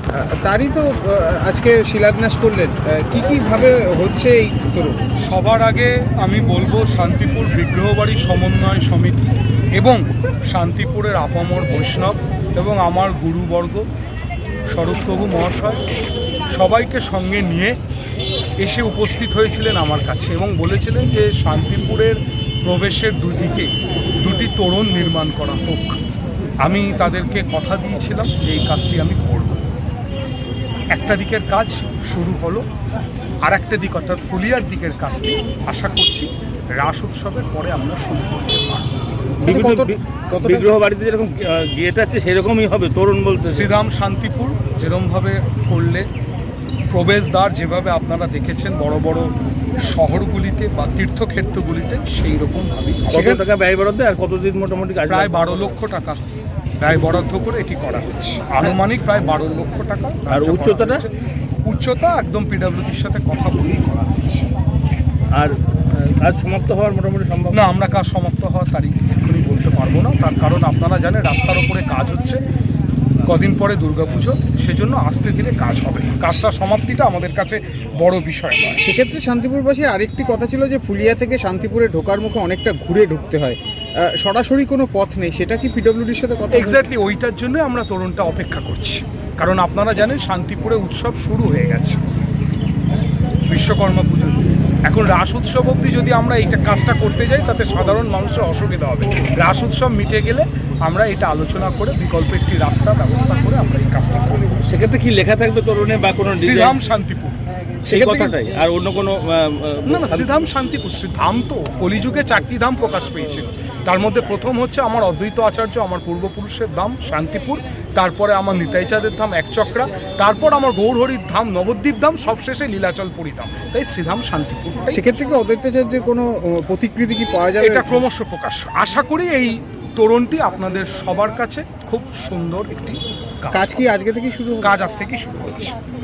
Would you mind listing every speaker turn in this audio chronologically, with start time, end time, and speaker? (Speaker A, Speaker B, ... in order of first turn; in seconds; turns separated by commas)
Speaker A: 0.2-5.0, Speaker B: 5.2-13.8, Speaker B: 14.7-15.8, Speaker B: 16.5-17.8, Speaker B: 18.6-26.0, Speaker B: 26.6-29.6, Speaker B: 30.9-32.6, Speaker B: 33.4-39.0, Speaker C: 39.4-43.7, Speaker A: 39.5-40.7, Speaker B: 43.5-46.0, Speaker B: 46.9-49.3, Speaker B: 49.8-53.3, Speaker C: 53.1-55.7, Speaker A: 53.1-53.4, Speaker B: 55.1-56.2, Speaker B: 56.8-61.1, Speaker C: 60.3-61.0, Speaker B: 61.7-64.5, Speaker C: 65.3-67.6, Speaker B: 67.5-72.4, Speaker B: 73.2-78.8, Speaker A: 78.8-86.8, Speaker B: 86.5-92.0, Speaker B: 93.5-104.6, Speaker C: 104.7-106.8, Speaker B: 106.3-107.3, Speaker C: 107.9-110.3, Speaker A: 107.9-108.3, Speaker B: 109.9-125.0, Speaker A: 124.9-128.0, Speaker B: 127.6-133.8, Speaker A: 133.5-134.7, Speaker B: 134.6-135.7